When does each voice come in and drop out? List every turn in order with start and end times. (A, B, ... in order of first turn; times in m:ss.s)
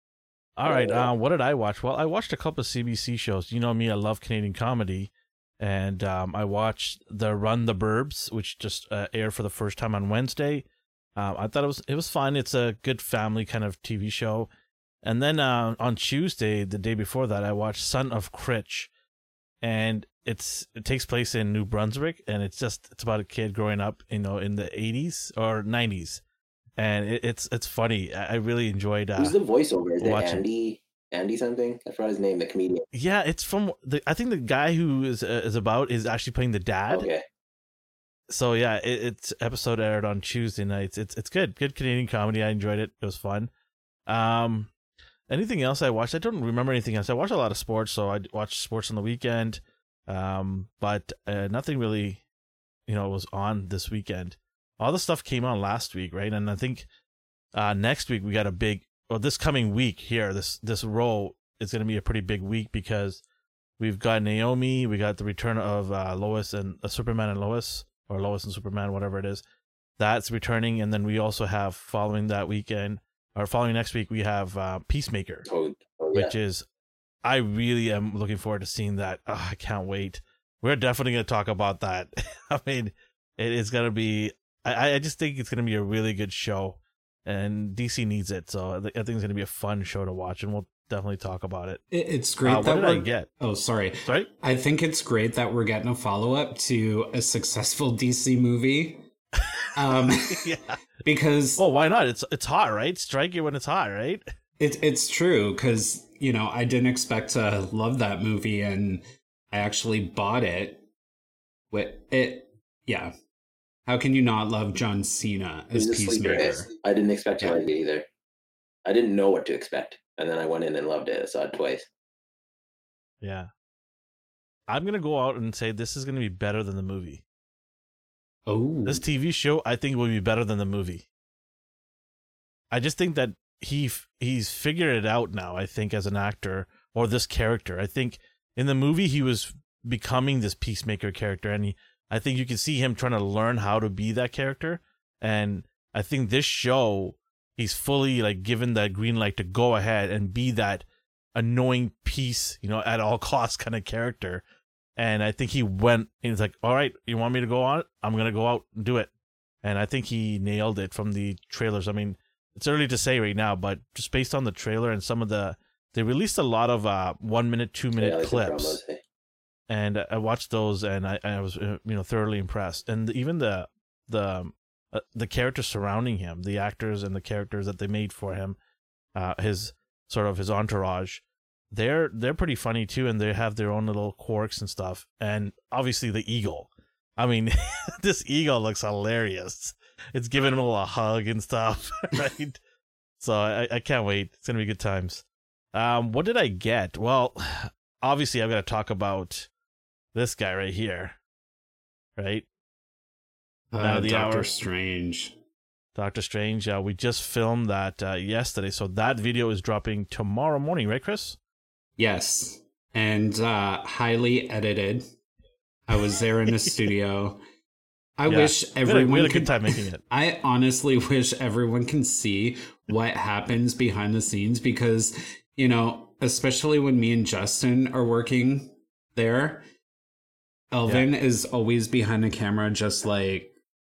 0:00.6-0:05.1 A
0:00.6-0:01.1 B
0:05.6-0:10.6 A
0:11.2-0:14.5 A
0:15.0-0:18.9 A
0:19.6-0:26.2 A
0:26.8-0:29.4 A
0:29.2-0:32.9 B
0:30.0-0:30.4 A
0:32.9-0:37.1 A
0:36.9-0:37.2 B
0:38.3-0:43.5 A
0:44.1-0:44.7 A
0:45.3-0:52.2 A
0:52.9-0:56.9 A
0:57.6-1:03.2 A
1:03.8-1:09.4 A
1:10.0-1:15.5 A
1:15.5-1:16.3 B
1:16.1-1:16.6 A
1:17.2-1:31.8 A
1:31.9-1:39.0 C
1:32.4-1:33.3 A
1:39.8-1:40.4 C
1:40.1-1:40.8 A
1:41.0-1:41.6 C
1:41.6-1:44.2 A
1:44.6-1:50.8 C
1:51.7-1:53.1 C
1:53.9-1:56.7 C
1:55.8-1:58.1 B
1:58.8-2:01.9 B
2:03.2-2:03.5 A
2:04.7-2:07.2 A
2:08.5-2:09.0 C
2:08.9-2:11.1 A
2:12.7-2:34.4 A
2:35.0-2:39.1 A
2:39.6-2:48.8 A
2:48.0-2:49.0 B
2:49.7-2:58.6 A
2:59.2-3:12.6 A
3:13.2-3:19.5 A
3:20.2-3:21.2 A
3:22.2-3:22.5 A
3:23.7-3:25.4 C
3:23.8-3:24.5 A
3:26.0-3:31.4 A
3:32.0-3:35.0 C
3:35.9-3:37.4 C
3:38.2-3:49.6 C
3:38.3-3:40.0 A
3:50.7-3:53.5 C